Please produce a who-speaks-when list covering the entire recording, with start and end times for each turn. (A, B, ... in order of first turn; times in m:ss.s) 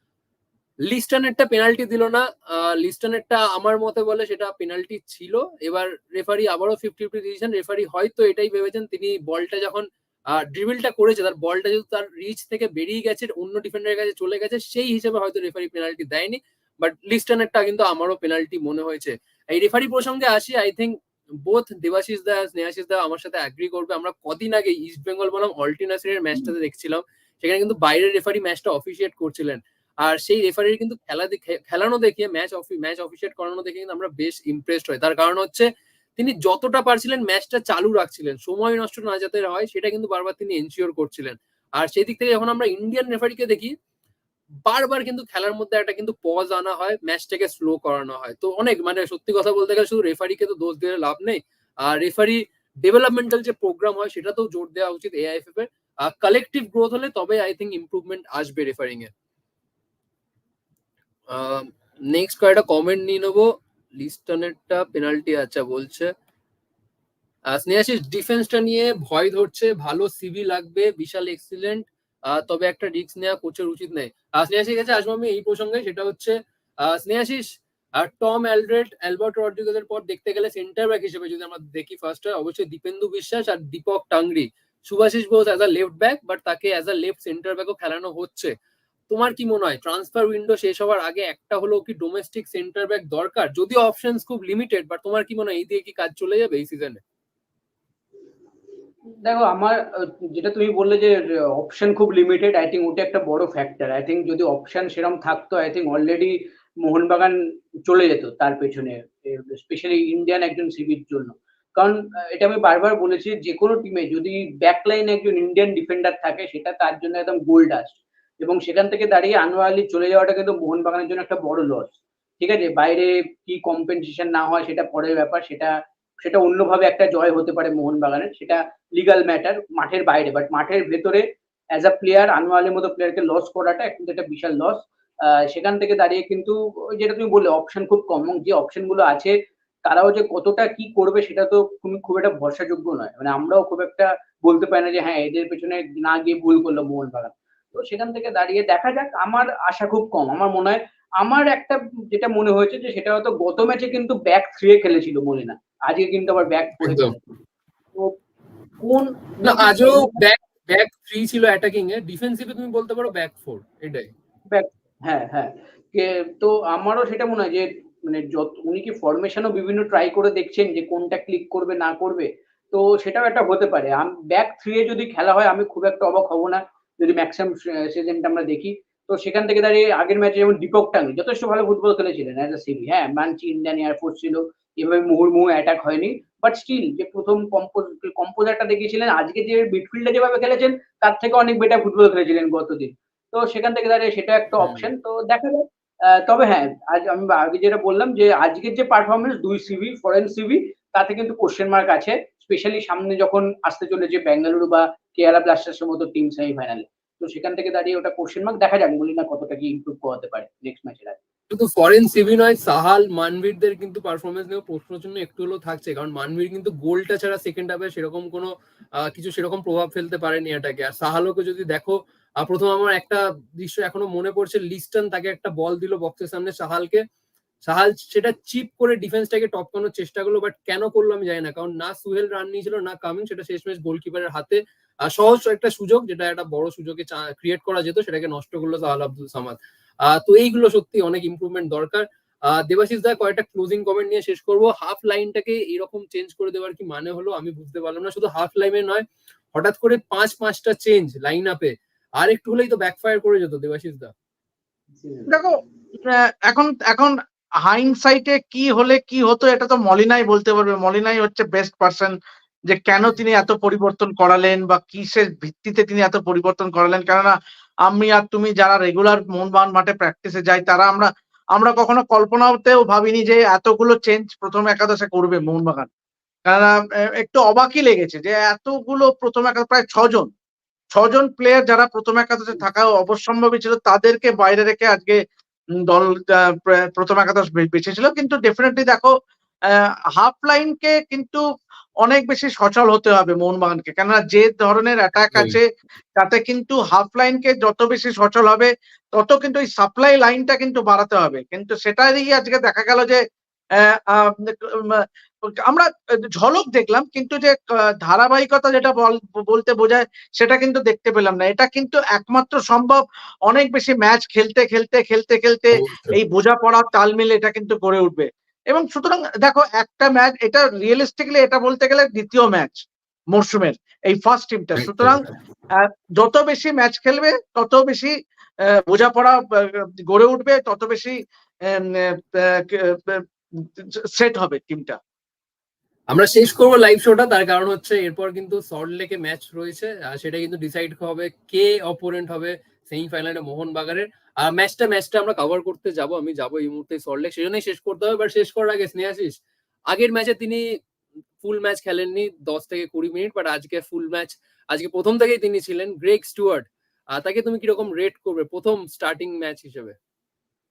0:00.9-0:21.0 A
0:21.5-0:43.7 A
0:44.7-0:59.1 A
1:01.3-1:06.1 A
1:07.5-1:17.5 A
1:18.0-1:28.5 A
1:29.1-1:37.0 A
1:39.2-2:11.2 B
2:11.8-2:19.3 B
2:19.8-2:37.2 B
2:36.8-2:37.2 A
2:38.8-2:40.2 B
2:39.4-2:44.1 A
2:44.5-3:31.2 B
3:14.6-3:14.9 A
3:31.5-3:38.5 A
3:39.1-3:47.0 A
3:47.7-4:14.1 A
4:15.0-4:15.4 B
4:15.3-4:22.1 C
4:22.7-4:35.9 C
4:36.5-4:40.3 C
4:40.9-4:45.2 C
4:45.9-4:49.1 C
4:49.7-4:51.4 C
4:52.0-4:55.6 C
4:55.3-4:55.6 A
4:56.2-5:03.2 C
5:03.8-5:05.0 C
5:05.6-5:25.2 C
5:15.8-5:16.2 A
5:24.8-5:25.4 A
5:25.8-5:28.1 C
5:28.8-5:35.0 C
5:36.1-5:50.6 A
5:51.4-6:00.0 A